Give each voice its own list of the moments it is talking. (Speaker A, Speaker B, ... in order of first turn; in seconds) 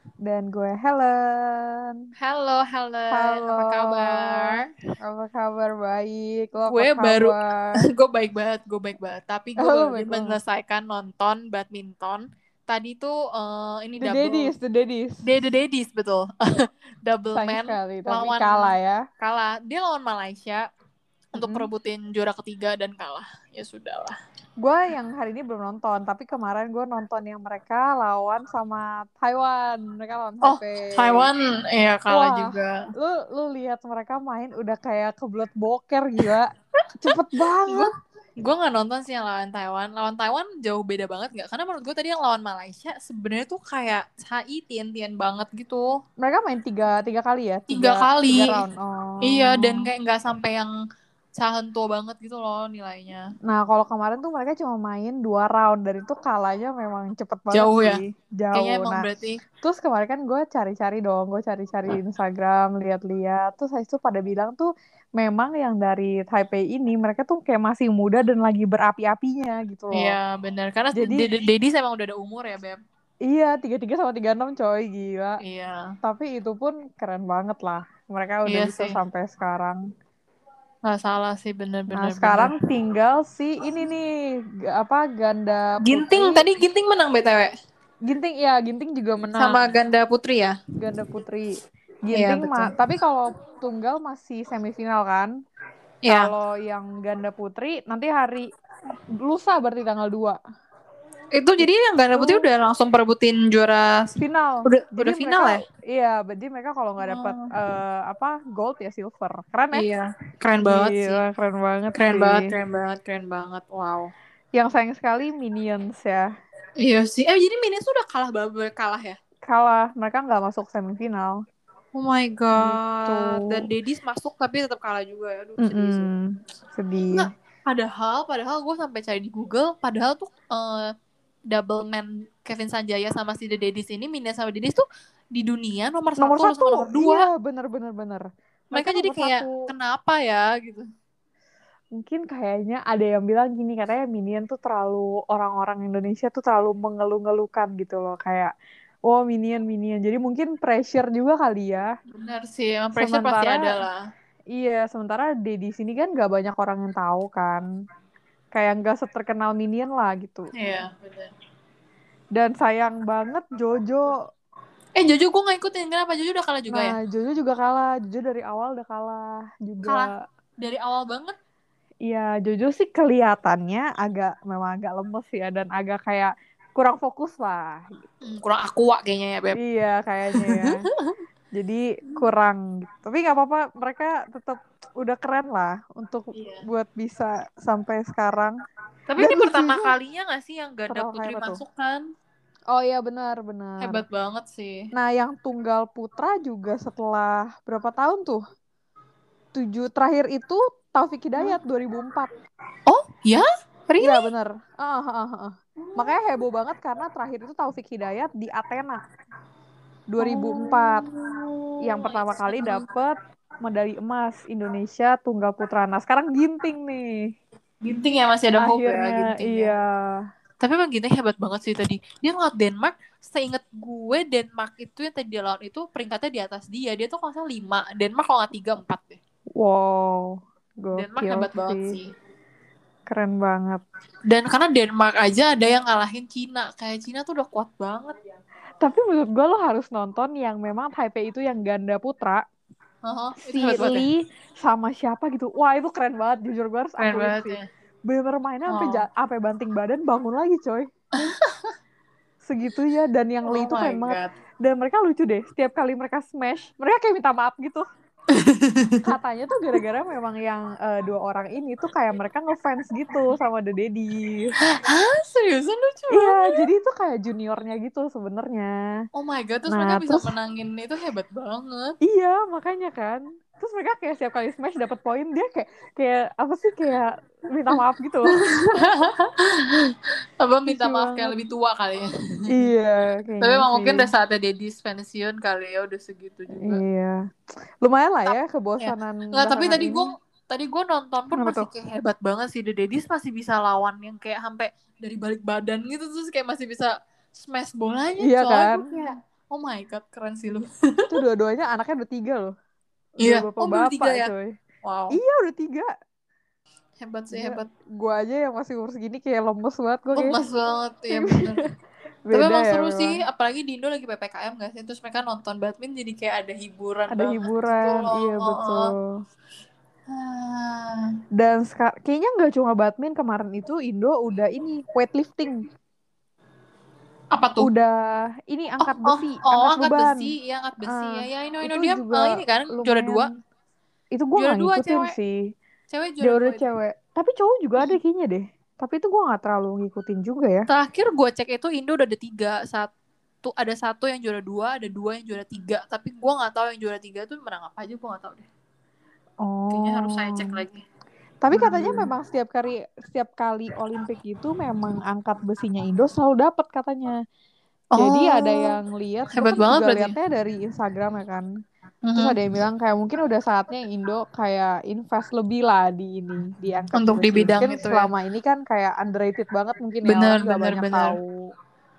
Speaker A: 0.2-2.0, 3.1-7.8, 9.6-10.4, 14.0-15.2, 17.3-19.0, 21.4-21.7, 24.6-31.3, 32.1-37.9, 46.2-49.9, 53.5-59.0, 59.6-70.2, 71.0-71.3, 73.3-75.4, 76.0-79.8, 81.9-84.1, 84.7-86.4, 88.0-89.7, 90.8-91.5, 92.0-95.3, 96.1-98.5, 99.2-100.4, 102.1-102.5, 104.2-109.8, 110.6-112.5, 114.6-116.3, 119.5-121.4, 122.6-123.6, 125.6-127.3, 136.2-139.7, 142.0-148.5, 149.1-151.9, 153.0-153.8, 154.5-157.6, 158.5-160.5, 162.3-164.2, 166.7-170.2, 172.1-178.0, 179.6-180.8, 181.6-188.5, 189.2-189.9, 190.9-191.6, 192.7-194.0, 194.9-198.4, 199.5-202.3, 204.0-209.0, 210.1-211.0, 211.8-217.3, 218.6-220.2, 229.6-232.0, 233.1-233.8, 238.8-242.4, 243.4-250.9, 252.4-257.9, 259.0-264.5, 266.1-268.7, 269.7-270.3, 272.0-278.4, 280.7-281.3, 282.5-284.1, 286.6-287.2, 287.8-290.1, 291.3-291.7, 298.2-298.9, 301.1-302.5, 303.2-304.5, 305.1-305.9, 307.3-310.4, 311.1-311.7, 312.3-313.1, 317.1-319.1, 321.4-325.6, 327.6-330.3, 330.8-333.3, 334.1-335.4, 336.2-340.7, 349.4-350.6, 351.4-357.2, 357.9-361.5, 362.1-371.4
Speaker B: 2.2-4.7, 6.7-14.5, 15.2-20.6, 21.4-24.2, 30.4-32.9, 37.0-37.9, 38.4-45.9, 47.7-48.6, 49.2-50.7, 51.4-53.2, 57.5-58.0, 58.5-59.4, 69.9-72.8, 75.4-75.9, 78.5-79.0, 80.8-82.5, 85.8-87.5, 89.4-90.6, 92.1-92.8, 96.0-96.3, 101.3-105.6, 107.0-107.5, 109.7-111.2, 112.0-114.1, 116.8-119.2, 122.0-126.1, 127.1-130.9, 131.5-137.3, 138.7-140.8, 152.1-154.0, 160.5-161.3, 164.9-166.9, 169.8-171.3, 178.2-179.6, 180.3-181.2, 186.3-186.6, 189.1-192.0, 193.8-194.9, 202.9-204.3, 205.8-206.4, 210.2-212.8, 217.8-219.7, 220.6-229.2, 230.9-232.1, 234.3-238.2, 243.0-244.1, 247.0-247.6, 248.7-249.0, 251.2-251.7, 253.5-254.3, 258.3-259.1, 264.7-266.6, 269.1-271.9, 278.3-282.6, 283.4-286.8, 288.2-300.7, 303.2-304.3, 304.8-305.2, 307.0-307.7, 310.1-311.7, 312.3-318.9, 320.1-321.1, 327.3-327.7, 328.8-333.3, 334.4-335.1, 335.9-336.6, 340.7-342.9, 343.4-348.5, 349.7-350.8, 351.5-352.1, 357.9-358.8, 359.3-360.1, 362.1-362.4, 366.9-368.1, 370.0-371.2